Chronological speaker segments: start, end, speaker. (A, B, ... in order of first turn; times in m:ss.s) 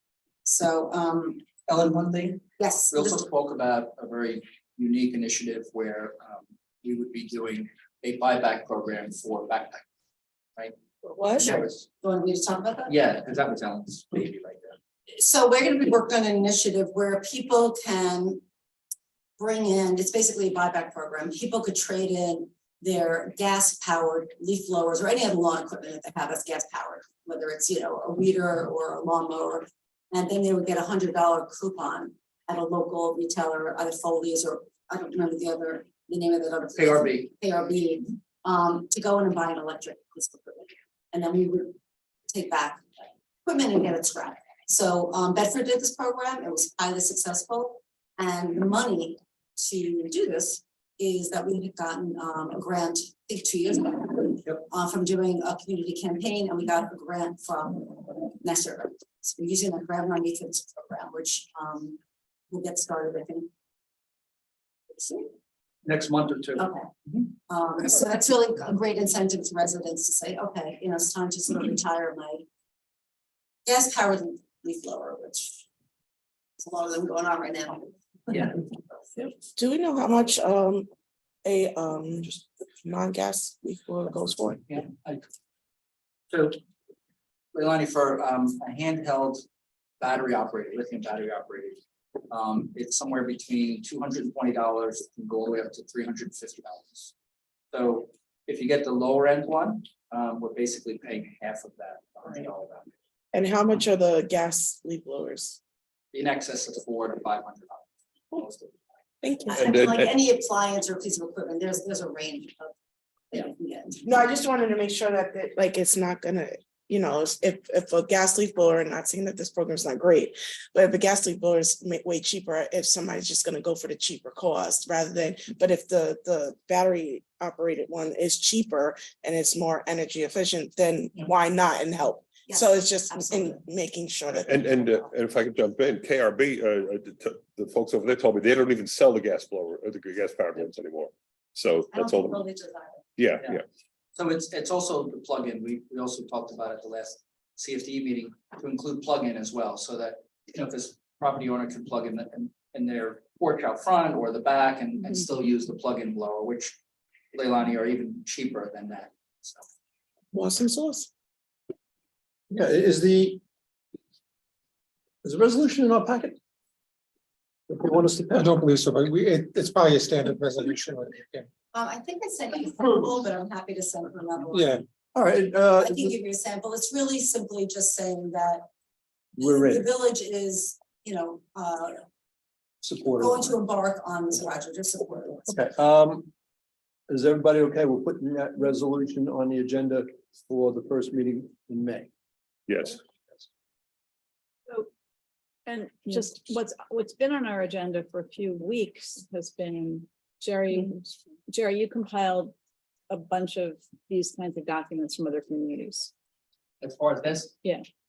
0:00.4-0:01.5 A
0:01.6-0:09.8 B
0:02.6-0:03.2 A
0:11.0-0:11.5 C
0:11.3-0:11.8 B
0:11.4-0:12.9 A
0:12.8-0:14.8 B
0:15.1-0:18.4 A
0:19.4-0:41.7 A
0:36.8-0:37.3 B
0:42.3-1:02.0 A
1:02.5-1:03.5 A
1:04.9-1:05.3 A
1:05.8-1:07.2 B
1:06.6-1:06.9 A
1:07.5-1:12.4 A
1:13.6-1:15.7 A
1:16.6-1:18.5 A
1:19.5-1:20.9 C
1:21.4-1:24.6 C
1:24.7-1:25.2 B
1:26.3-1:26.6 B
1:27.5-1:29.4 B
1:30.0-1:37.1 B
1:37.7-1:42.9 B
1:43.3-1:45.6 C
1:46.1-1:48.8 B
1:49.2-1:49.7 C
1:49.5-1:52.7 A
1:53.3-1:54.1 A
1:54.0-2:14.6 C
2:12.5-2:13.6 A
2:14.4-2:22.4 D
2:21.9-2:23.0 A
2:23.2-2:23.6 D
2:24.2-2:36.7 B
2:37.3-2:39.6 B
2:40.3-2:41.1 C
2:42.5-2:43.4 E
2:45.2-2:46.4 E
2:47.7-2:48.5 E
2:48.3-2:51.5 F
2:51.7-2:54.8 A
2:54.5-2:54.8 F
2:55.1-2:56.1 E
2:55.8-2:58.7 A
2:59.4-2:59.9 E
2:59.4-3:02.0 A
3:02.8-3:03.5 E
3:03.1-3:05.6 A
3:05.5-3:06.3 E
3:07.1-3:12.1 E
3:12.7-3:13.0 D
3:15.6-3:22.5 G
3:23.1-3:26.1 G
3:26.8-3:27.6 B